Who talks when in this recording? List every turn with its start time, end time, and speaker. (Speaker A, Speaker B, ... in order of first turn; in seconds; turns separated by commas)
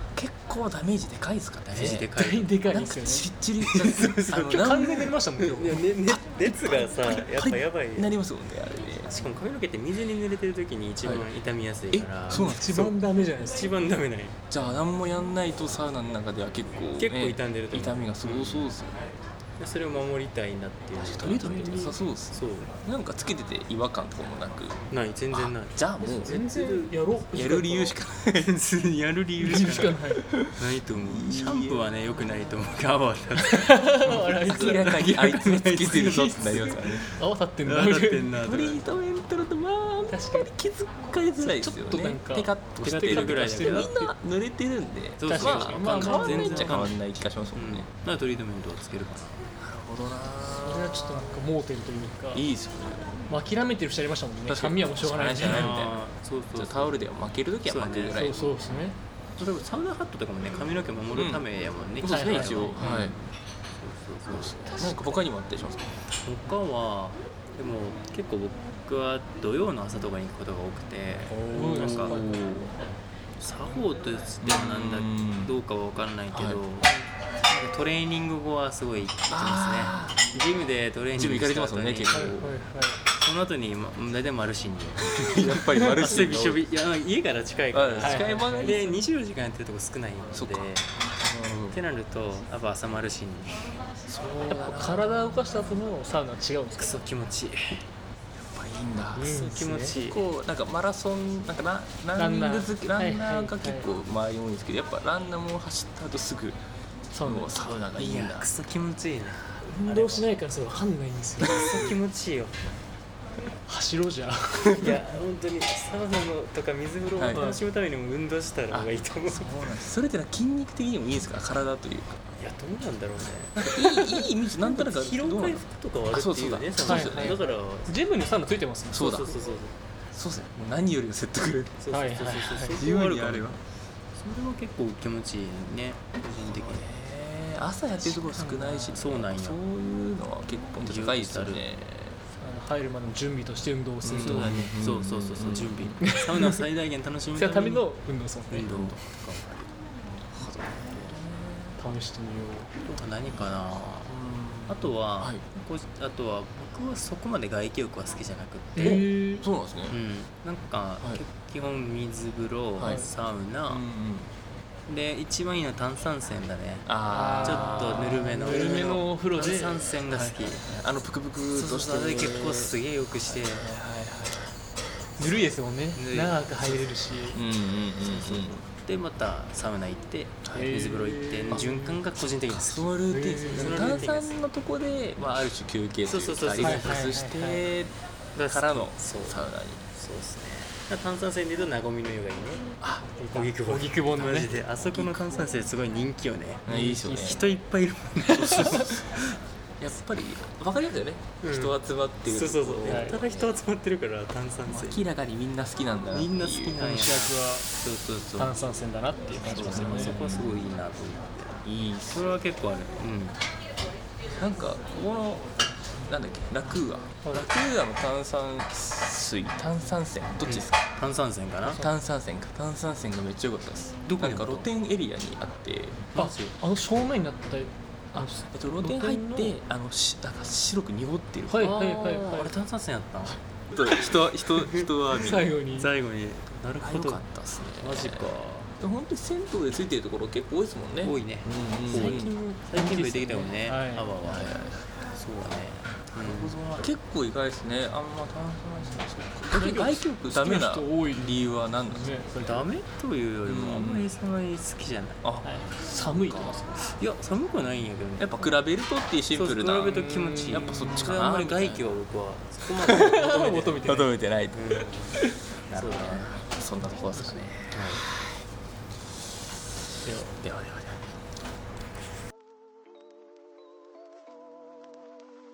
Speaker A: 0.2-2.1, Speaker B: 1.7-2.6, Speaker C: 2.1-3.3, Speaker A: 2.7-5.2, Speaker B: 3.6-4.8, Speaker C: 4.3-5.9, Speaker B: 5.4-8.1, Speaker A: 6.1-9.1, Speaker B: 9.0-12.5, Speaker A: 11.0-11.3, Speaker A: 11.9-13.0, Speaker C: 12.3-13.7, Speaker B: 13.4-14.4, Speaker A: 14.5-19.0, Speaker B: 17.0-18.7, Speaker B: 19.6-22.7, Speaker A: 21.0-24.8, Speaker B: 24.9-26.9, Speaker A: 25.3-26.4, Speaker C: 26.2-27.8, Speaker A: 27.3-28.4, Speaker B: 27.7-37.1, Speaker C: 29.4-30.3, Speaker A: 30.4-31.9, Speaker C: 33.4-35.2, Speaker A: 34.1-37.1, Speaker C: 37.1-38.4, Speaker B: 37.6-38.9, Speaker A: 38.4-47.9, Speaker C: 40.1-40.5, Speaker C: 41.4-44.1, Speaker B: 42.8-43.9, Speaker B: 45.2-49.4, Speaker C: 45.2-46.9, Speaker A: 49.6-51.3, Speaker C: 50.5-52.5, Speaker A: 52.3-53.3, Speaker C: 53.3-55.8, Speaker A: 54.5-56.0, Speaker B: 55.4-57.1, Speaker A: 56.5-58.5, Speaker B: 57.6-58.2, Speaker C: 58.1-59.0, Speaker B: 59.4-64.8, Speaker A: 61.1-61.5, Speaker A: 62.0-63.2, Speaker C: 62.0-62.9, Speaker A: 64.3-66.0, Speaker C: 64.7-65.2, Speaker B: 66.2-72.6, Speaker A: 71.3-72.8, Speaker C: 71.5-72.3, Speaker B: 73.4-76.9, Speaker A: 74.4-75.5, Speaker A: 76.3-77.0, Speaker B: 77.5-82.5, Speaker A: 79.3-80.2, Speaker A: 81.1-82.5, Speaker C: 82.1-83.0, Speaker B: 83.1-90.9, Speaker A: 85.0-86.6, Speaker A: 87.7-88.9, Speaker C: 88.0-89.0, Speaker A: 90.3-91.8, Speaker B: 91.7-93.7, Speaker A: 94.1-95.8, Speaker C: 94.5-97.0, Speaker B: 96.8-97.8, Speaker A: 98.4-99.3, Speaker C: 99.2-100.0, Speaker B: 99.2-100.3, Speaker A: 100.0-106.6, Speaker C: 102.2-103.9, Speaker C: 107.1-107.5, Speaker A: 107.2-108.5, Speaker B: 108.0-110.3, Speaker C: 109.6-112.0, Speaker B: 111.4-112.6, Speaker C: 113.7-115.0, Speaker B: 114.8-119.8, Speaker A: 117.2-117.5, Speaker C: 117.3-117.6, Speaker A: 118.7-122.2, Speaker B: 122.3-123.7, Speaker A: 123.5-127.4, Speaker C: 123.8-124.2, Speaker B: 124.6-128.0, Speaker C: 126.8-129.1, Speaker A: 128.9-129.4, Speaker B: 128.9-129.8, Speaker A: 130.1-131.8, Speaker B: 131.8-133.6, Speaker C: 131.9-132.8, Speaker A: 132.8-133.6, Speaker B: 134.2-136.9, Speaker A: 136.4-142.2, Speaker B: 138.0-139.6, Speaker B: 140.8-141.6, Speaker C: 142.4-144.6, Speaker A: 144.0-146.0, Speaker B: 144.2-147.9, Speaker C: 146.0-146.6, Speaker C: 147.3-148.7, Speaker B: 148.5-149.7, Speaker A: 148.7-149.1, Speaker B: 150.3-151.2, Speaker A: 150.3-151.8, Speaker C: 151.8-152.7, Speaker B: 152.8-154.1, Speaker A: 154.1-155.4, Speaker B: 154.7-159.1, Speaker C: 158.8-159.5, Speaker A: 158.8-160.0, Speaker B: 159.9-163.8, Speaker A: 162.8-163.0, Speaker A: 163.7-164.3, Speaker B: 164.9-166.9, Speaker A: 166.8-168.6, Speaker C: 167.1-170.4, Speaker B: 167.4-170.6, Speaker A: 170.6-174.6, Speaker B: 171.5-173.7, Speaker C: 175.2-177.4, Speaker B: 175.9-176.9, Speaker A: 177.3-178.7, Speaker B: 178.0-182.9, Speaker A: 180.4-180.7, Speaker C: 180.5-182.0, Speaker A: 182.5-187.9, Speaker C: 183.1-184.1, Speaker B: 183.5-184.4, Speaker B: 186.1-187.6, Speaker C: 186.6-187.6, Speaker B: 188.3-192.7, Speaker A: 188.5-189.8, Speaker A: 192.8-193.1, Speaker C: 193.1-194.6, Speaker B: 193.3-199.4, Speaker A: 194.8-195.3, Speaker A: 196.7-197.5, Speaker C: 196.7-197.0, Speaker A: 198.2-199.2, Speaker A: 199.8-203.6, Speaker B: 201.4-205.1, Speaker C: 202.8-203.2, Speaker A: 204.7-206.8, Speaker B: 206.1-208.6, Speaker C: 206.8-207.7, Speaker C: 208.4-210.2, Speaker A: 209.4-210.6, Speaker B: 209.4-213.4, Speaker A: 211.6-212.3, Speaker A: 214.3-220.8, Speaker C: 217.2-217.5, Speaker B: 220.4-221.8, Speaker A: 221.7-226.0, Speaker B: 224.1-224.7, Speaker B: 226.1-226.5, Speaker C: 226.2-229.6, Speaker A: 228.5-231.6, Speaker C: 231.5-232.5, Speaker B: 231.6-233.4, Speaker A: 233.3-235.5, Speaker B: 234.6-237.2, Speaker C: 235.1-235.9, Speaker A: 236.8-242.3, Speaker B: 237.8-238.7, Speaker B: 241.0-244.5, Speaker C: 241.9-244.1, Speaker A: 244.3-244.9, Speaker B: 245.1-246.6, Speaker A: 246.1-252.1, Speaker C: 249.5-252.7, Speaker B: 252.4-255.2, Speaker A: 253.4-254.1, Speaker A: 255.2-256.6, Speaker C: 255.4-256.8, Speaker B: 256.8-258.4, Speaker A: 258.2-260.0, Speaker B: 259.3-263.9, Speaker C: 259.9-261.2, Speaker A: 260.5-261.8, Speaker A: 262.8-263.1, Speaker C: 262.9-264.1, Speaker A: 263.8-268.5, Speaker B: 264.5-265.1, Speaker B: 265.7-266.4, Speaker C: 267.0-267.5, Speaker B: 267.6-268.0, Speaker C: 270.0-270.4, Speaker A: 270.4-271.1